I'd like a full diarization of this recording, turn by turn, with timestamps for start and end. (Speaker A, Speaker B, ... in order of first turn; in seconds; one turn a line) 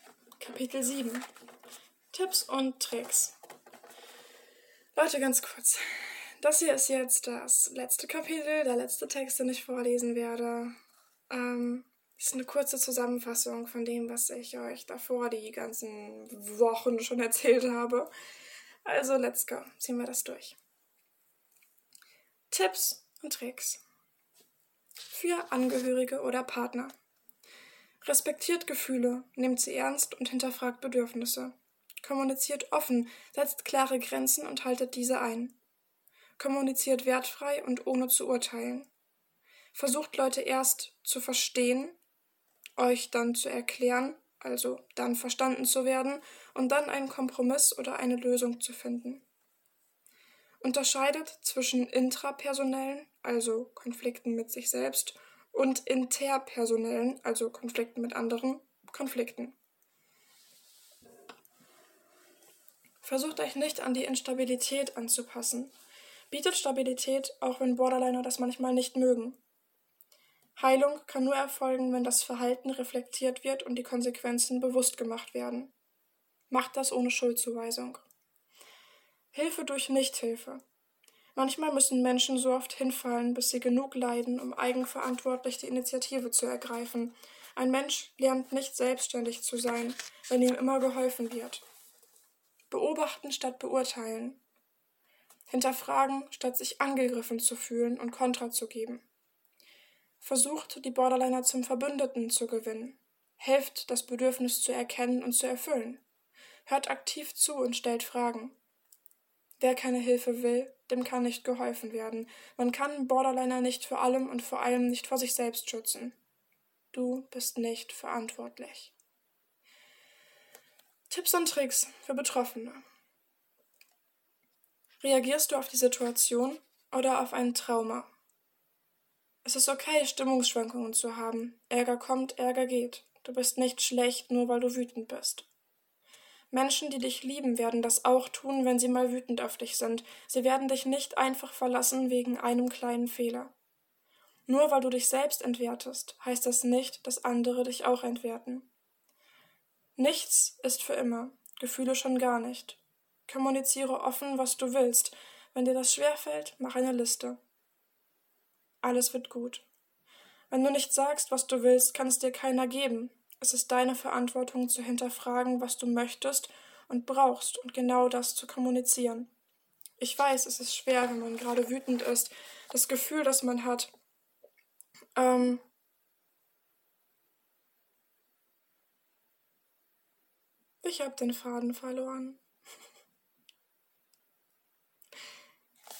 Speaker A: 0.4-1.2
Speaker A: 2.1-3.3
Speaker A: 4.9-10.8
Speaker A: 11.3-18.1
Speaker A: 18.8-20.6
Speaker A: 22.5-23.8
Speaker A: 25.1-26.9
Speaker A: 28.0-35.6
Speaker A: 36.4-38.9
Speaker A: 39.7-42.0
Speaker A: 42.8-49.2
Speaker A: 50.6-59.5
Speaker A: 63.0-65.7
Speaker A: 66.3-69.4
Speaker A: 70.5-75.7
Speaker A: 76.5-78.0
Speaker A: 79.3-80.6
Speaker A: 81.3-91.6
Speaker A: 92.7-94.4
Speaker A: 95.5-99.0
Speaker A: 100.2-106.0
Speaker A: 106.7-108.5
Speaker A: 109.6-116.2
Speaker A: 116.9-118.9
Speaker A: 121.1-122.8
Speaker A: 125.0-128.1
Speaker A: 129.4-135.5
Speaker A: 136.5-143.5
Speaker A: 144.5-148.7
Speaker A: 149.9-157.4
Speaker A: 158.8-159.6
Speaker A: 160.5-169.3
Speaker A: 170.0-173.9
Speaker A: 175.2-175.6
Speaker A: 180.8-182.4